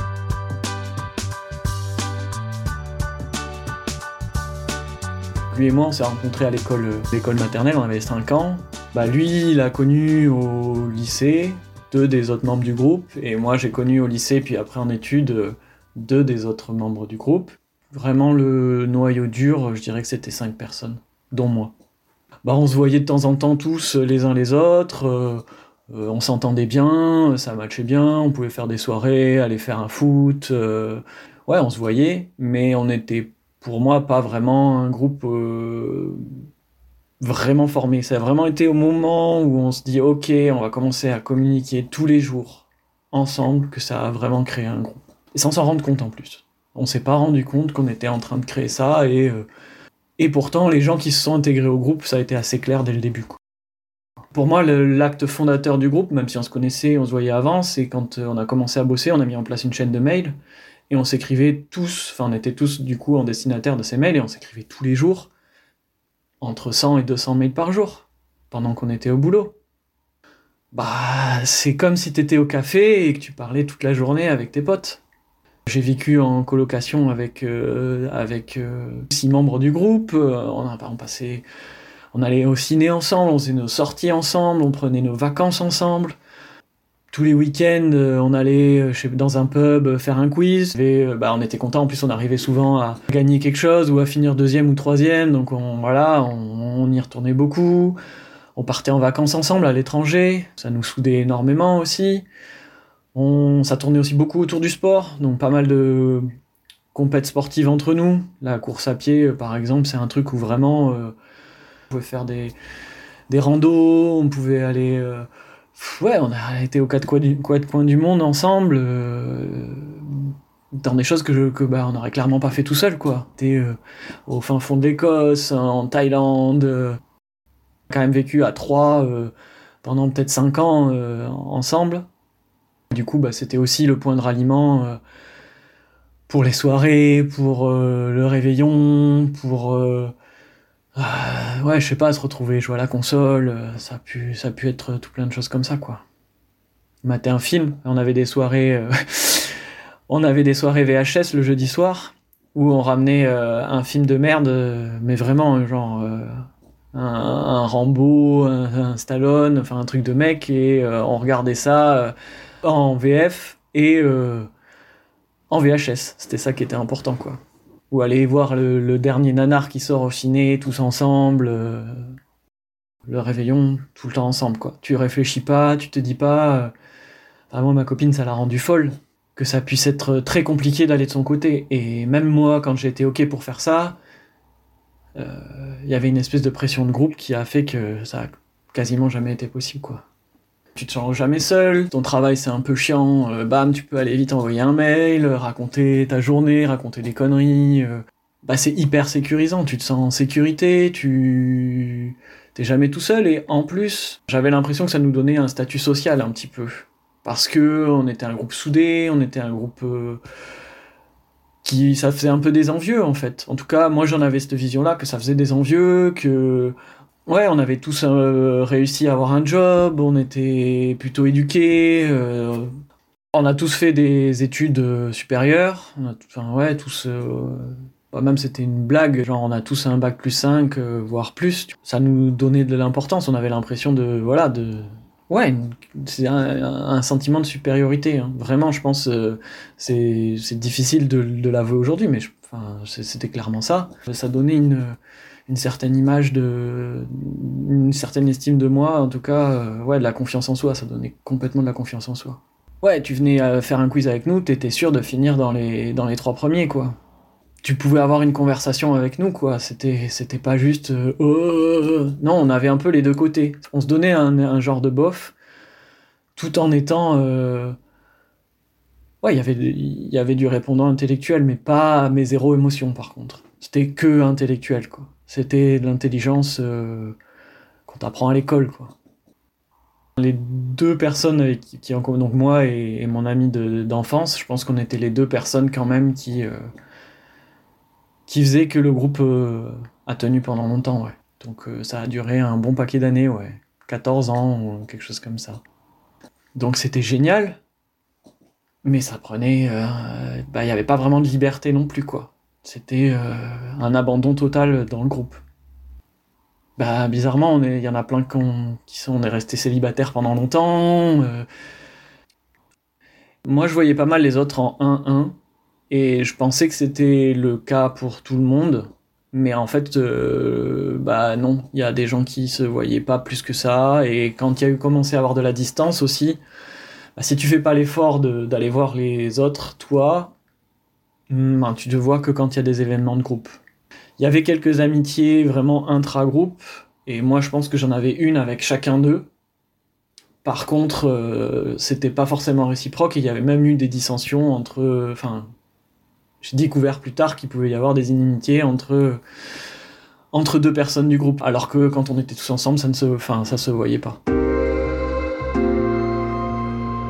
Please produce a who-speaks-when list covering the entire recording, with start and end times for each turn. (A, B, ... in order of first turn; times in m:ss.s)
0:05.5-0:21.7 A
0:22.4-0:36.3 A
0:37.2-0:49.4 A
0:50.2-0:53.4 A
0:54.3-1:00.3 A
1:00.9-1:05.3 A
1:06.4-1:09.5 A
1:10.7-1:15.0 A
1:15.7-1:21.4 A
1:22.1-1:26.2 A
1:27.1-1:38.0 A
1:38.6-1:42.2 A
1:43.1-1:46.2 A
1:46.9-1:51.2 A
1:51.9-1:52.6 A
1:53.3-2:07.0 A
2:07.9-2:12.1 A
2:12.9-2:15.0 A
2:16.3-2:20.1 A
2:21.0-2:26.0 A
2:27.0-2:36.4 A
2:36.9-2:44.5 A
2:45.5-2:47.4 A
2:47.9-2:52.2 A
2:53.1-2:56.7 A
2:57.5-3:04.0 A
3:05.2-3:10.0 A
3:10.8-3:30.2 A
3:31.6-3:36.8 A
3:37.3-3:42.7 A
3:43.3-4:05.0 A
4:05.5-4:17.0 A
4:17.6-4:25.3 A
4:26.4-4:27.8 A
4:29.2-4:37.2 A
4:37.8-4:38.9 A
4:40.2-4:46.6 A
4:48.3-4:55.6 A
4:56.6-4:57.6 A
4:58.8-5:05.4 A
5:06.8-5:11.4 A
5:13.4-5:15.4 A
5:15.9-5:26.4 A
5:27.2-5:30.3 A
5:31.3-5:33.6 A
5:34.2-5:39.3 A
5:40.4-5:45.5 A
5:46.4-5:49.2 A
5:50.3-5:54.2 A